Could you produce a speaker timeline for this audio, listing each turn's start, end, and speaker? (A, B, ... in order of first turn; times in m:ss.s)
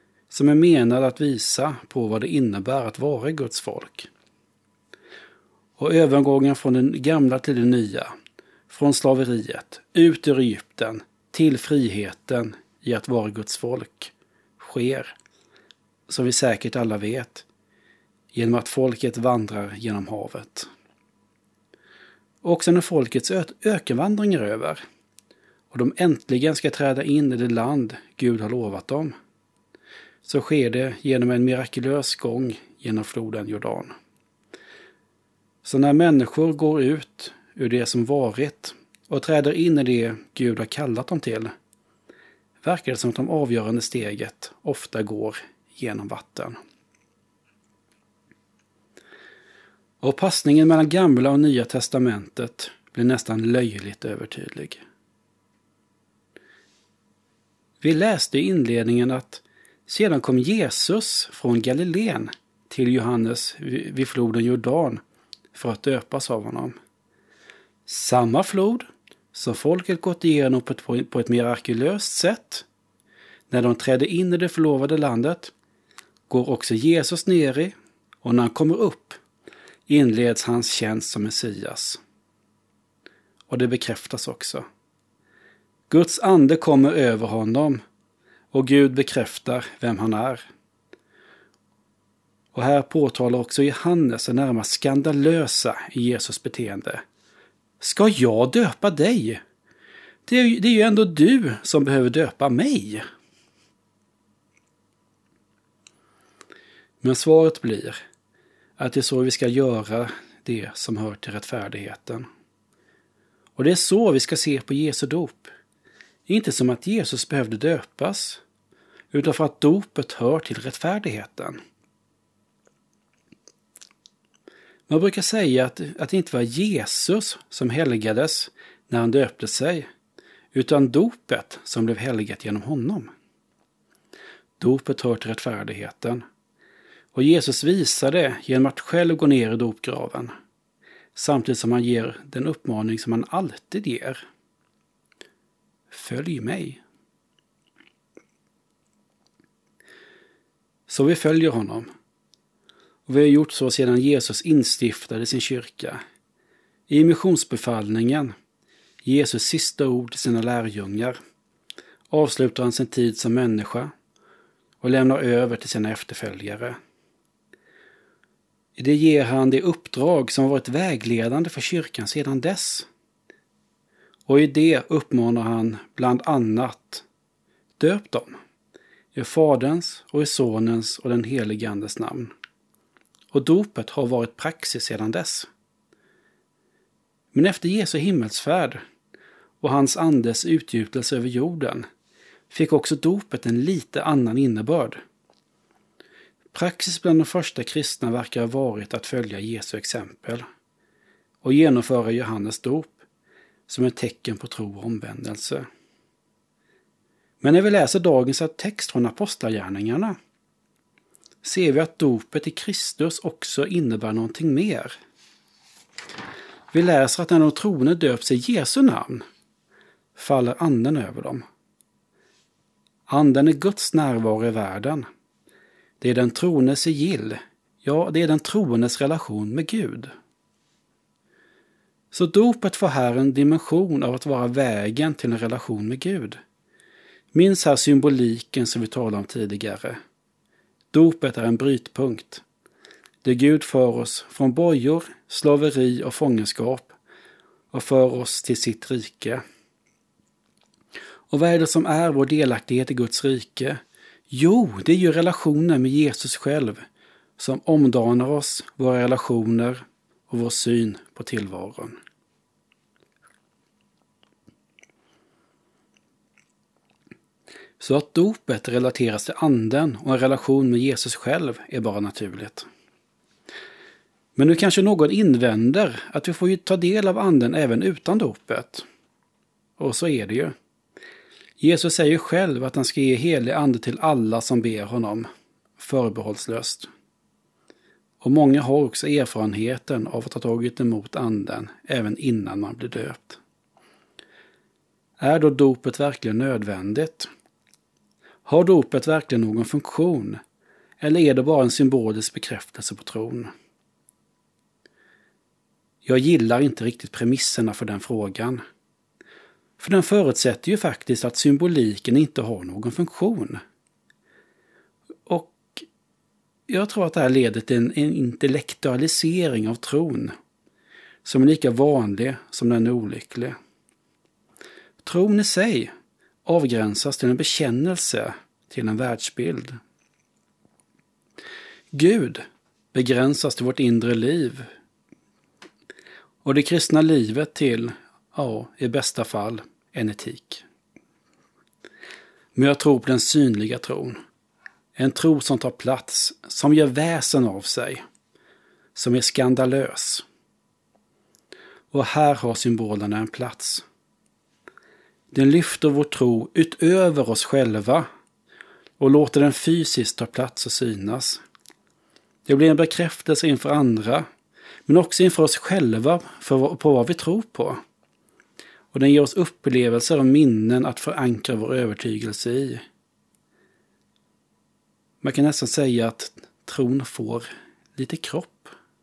0:00.3-0:04.1 A
0:05.8-0:08.1 A
0:08.7-0:15.1 A
0:16.1-0:17.5 A
0:18.3-0:20.7 A
0:22.4-0:24.8 A
0:25.7-0:29.2 A
0:30.2-0:33.9 A
0:35.6-0:41.5 A
0:42.6-0:46.6 A
0:50.0-0:54.8 A
0:57.8-1:05.0 A
1:05.5-1:06.8 A
1:07.9-1:12.7 A
1:13.5-1:15.5 A
1:16.3-1:19.2 A
1:19.9-1:22.0 A
1:23.5-1:24.7 A
1:25.9-1:27.8 A
1:28.5-1:30.4 A
1:32.5-1:37.0 A
1:37.8-1:39.4 A
1:40.3-1:43.0 A
1:47.0-1:48.0 A
1:48.8-1:52.3 A
1:53.6-1:55.5 A
1:56.3-1:58.4 A
1:59.1-2:01.6 A
2:04.9-2:09.9 A
2:10.5-2:13.1 A
2:14.6-2:16.2 A
2:17.1-2:20.3 A
2:21.2-2:24.2 A
2:25.9-2:26.8 A
2:30.9-2:31.9 A
2:33.1-2:36.0 A
2:36.9-2:38.4 A
2:39.0-2:41.2 A
2:42.1-2:43.9 A
2:44.8-2:46.8 A
2:48.8-2:52.9 A
2:54.3-2:57.0 A
2:57.8-2:58.4 A
2:59.1-3:02.3 A
3:03.3-3:05.5 A
3:07.3-3:08.8 A
3:09.6-3:11.9 A
3:12.5-3:15.0 A
3:16.5-3:20.4 A
3:21.4-3:23.0 A
3:23.7-3:25.7 A
3:27.4-3:30.2 A
3:31.4-3:35.0 A
3:36.7-3:39.3 A
3:40.2-3:41.4 A
3:43.1-3:45.1 A
3:46.0-3:50.1 A
3:52.1-3:56.4 A
3:57.3-4:00.0 A
4:00.9-4:02.4 A
4:03.2-4:06.9 A
4:07.7-4:09.4 A
4:11.3-4:16.8 A
4:17.4-4:22.0 A
4:27.8-4:32.7 A
4:34.4-4:38.8 A
4:39.8-4:40.6 A
4:41.6-4:46.9 A
4:48.2-4:53.4 A
4:55.2-4:57.3 A
4:58.5-5:00.4 A
5:01.0-5:03.5 A
5:06.0-5:08.6 A
5:09.8-5:13.6 A
5:15.3-5:15.9 A
5:16.7-5:20.3 A
5:21.2-5:23.6 A
5:25.0-5:25.9 A
5:26.4-5:29.8 A
5:31.9-5:34.7 A
5:36.4-5:40.6 A
5:42.6-5:44.2 A
5:45.0-5:48.0 A
5:49.0-5:50.2 A
5:51.9-5:53.8 A
5:55.3-5:58.1 A
5:59.0-6:01.4 A
6:02.5-6:04.3 A
6:04.9-6:07.8 A
6:08.9-6:12.8 A
6:15.2-6:18.8 A